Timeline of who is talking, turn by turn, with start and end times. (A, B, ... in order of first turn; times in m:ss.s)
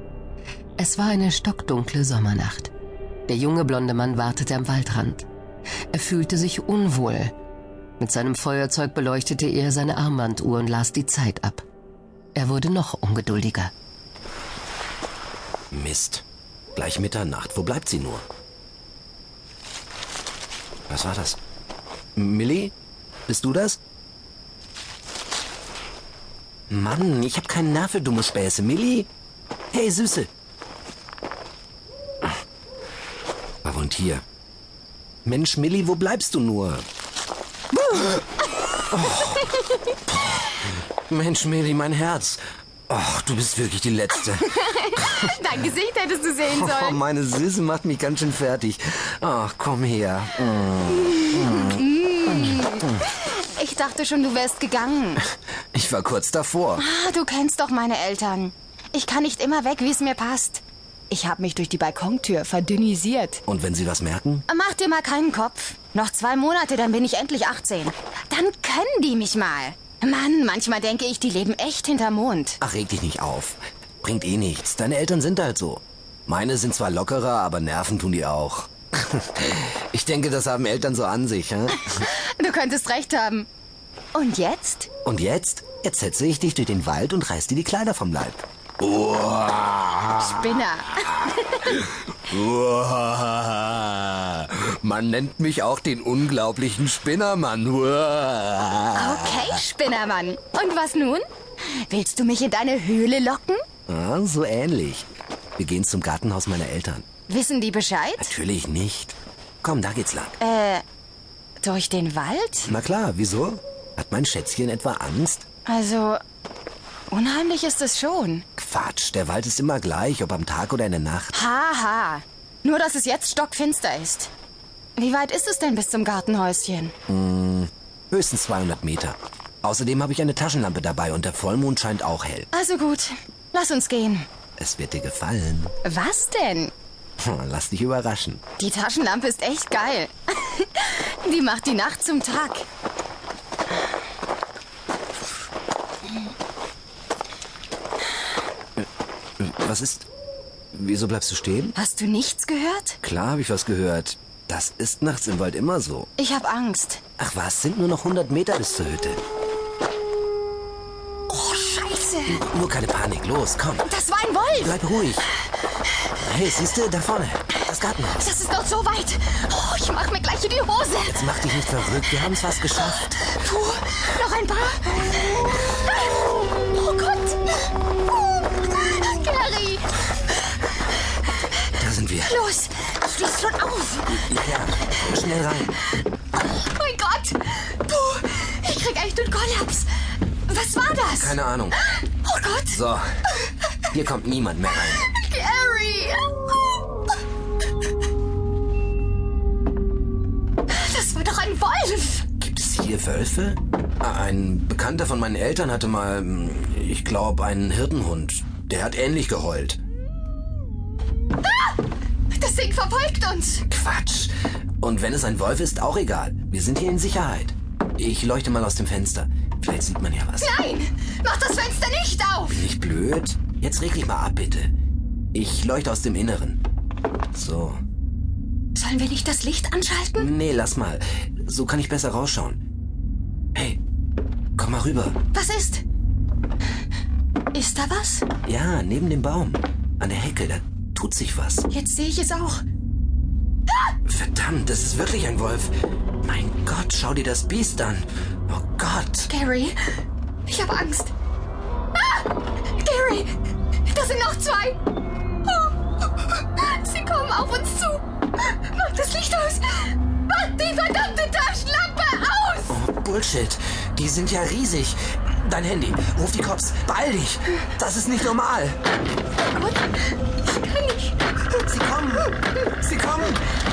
0:00.8-0:02.7 A
0:03.3-0:05.2 A
0:05.9-0:07.3 A
0:08.0-0:11.6 A
0:12.3-0:13.7 A
0:15.7-0:18.2 B
0:20.9-0:21.4 B
0:22.2-0:22.7 B
0:23.3-0:23.8 B
0:26.7-0:29.1 B
0:29.7-0:30.3 B
0:33.6-0:34.2 B
0:35.2-0:36.9 B
0:38.9-0:45.3 B
0:44.2-0:47.0 C
0:46.4-0:53.0 B
0:51.0-0:55.2 C
0:55.7-0:56.8 B
0:56.8-1:03.4 C
1:03.5-1:04.4 B
1:04.5-1:12.6 C
1:12.6-1:22.0 B
1:21.8-1:23.5 C
1:24.1-1:24.9 C
1:25.0-1:39.6 B
1:30.2-1:31.8 C
1:38.9-1:43.6 C
1:43.9-1:47.1 B
1:47.3-1:48.3 C
1:48.2-1:50.4 B
1:50.4-1:50.8 C
1:51.6-1:52.7 C
1:52.6-1:55.4 B
1:55.6-1:56.2 C
1:57.1-1:58.4 C
1:58.6-2:01.4 B
2:01.3-2:04.3 C
2:05.0-2:06.9 C
2:07.1-2:12.5 B
2:12.5-2:14.3 C
2:14.6-2:15.7 B
2:15.8-2:16.7 C
2:17.2-2:18.4 B
2:18.6-2:22.6 C
2:29.4-2:30.1 B
2:30.7-2:31.8 B
2:31.7-2:33.0 C
2:33.0-2:36.1 B
2:36.2-2:37.0 C
2:37.2-2:39.2 B
2:41.3-2:42.4 C
2:42.2-2:43.9 B
2:43.8-2:45.0 C
2:44.6-2:45.3 B
2:46.2-2:48.3 B
2:48.1-2:57.7 C
2:51.0-2:53.1 B
2:58.6-2:59.8 C
3:01.8-3:02.4 B
3:02.2-3:04.2 C
3:04.1-3:05.8 B
3:06.4-3:12.8 C
3:11.2-3:11.8 B
3:12.6-3:13.1 B
3:13.9-3:15.0 B
3:14.8-3:16.8 C
3:20.7-3:22.3 C
3:22.4-3:29.8 B
3:31.4-3:31.8 C
3:32.3-3:33.6 C
3:33.7-3:40.6 B
3:40.4-3:42.7 C
3:42.5-3:44.7 B
3:45.3-3:46.6 B
3:47.3-3:47.8 B
3:48.7-3:50.3 C
3:50.1-3:52.6 B
3:53.5-3:53.8 B
3:54.6-3:55.2 B
3:55.3-3:55.8 C
3:57.5-3:58.2 C
3:58.4-4:01.7 B
4:01.7-4:02.6 C
4:04.0-4:09.3 B
4:09.2-4:09.8 C
4:10.5-4:11.1 C
4:12.8-4:13.3 C
4:13.9-4:14.8 C
4:15.5-4:22.8 C
4:22.7-4:28.8 B
4:29.6-4:29.8 C
4:30.5-4:31.2 C
4:31.6-4:33.4 B